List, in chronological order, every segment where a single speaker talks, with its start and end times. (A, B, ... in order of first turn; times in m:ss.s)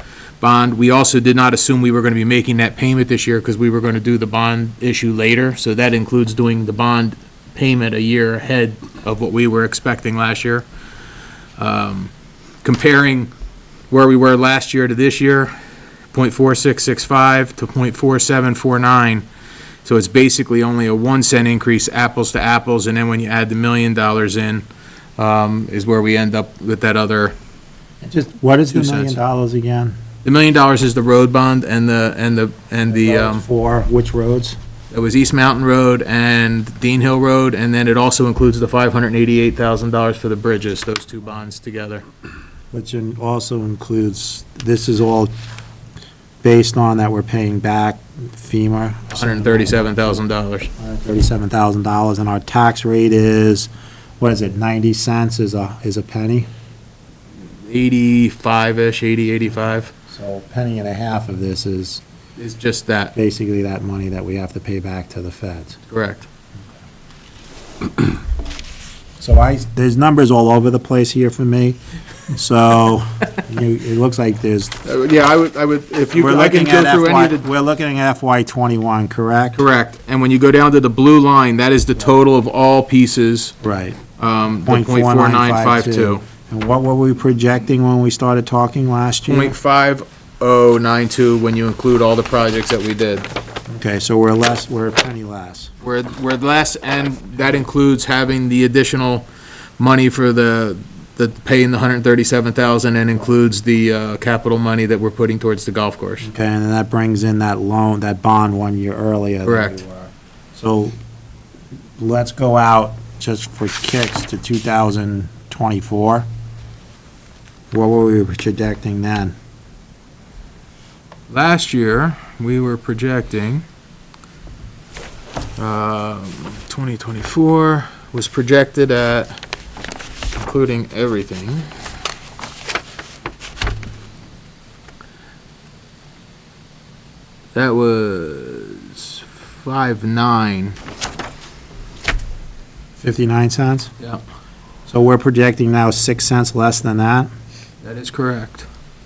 0:00.4-0:10.7 A
0:11.6-0:12.1 A
0:12.6-0:13.3 A
0:13.9-0:15.5 A
0:16.1-0:19.2 A
0:19.8-0:24.7 A
0:25.2-0:27.3 A
0:28.0-0:30.0 B
0:28.7-0:29.2 A
0:30.2-0:33.4 A
0:32.9-0:34.6 B
0:34.9-0:42.0 A
0:42.7-0:45.3 B
0:46.4-0:50.2 B
0:49.1-0:50.7 A
0:50.8-0:56.5 B
0:57.6-0:59.9 A
1:00.1-1:02.0 B
1:02.4-1:03.1 A
1:03.1-1:05.8 B
1:05.9-1:06.3 A
1:09.2-1:11.8 B
1:12.3-1:14.8 B
1:14.8-1:17.4 A
1:16.1-1:19.6 B
1:19.6-1:23.5 A
1:23.6-1:24.0 B
1:24.2-1:26.2 A
1:24.7-1:29.6 B
1:29.3-1:33.2 A
1:33.7-1:35.7 B
1:35.8-1:39.3 A
1:39.8-1:46.2 A
1:46.2-1:50.9 B
1:49.4-1:49.8 A
1:52.0-1:56.3 B
1:57.7-1:59.3 B
2:01.3-2:03.6 A
2:05.6-2:09.4 A
2:10.3-2:11.7 A
2:17.5-2:20.8 A
2:23.0-2:23.9 B
2:24.9-2:27.3 B
2:27.8-2:28.7 A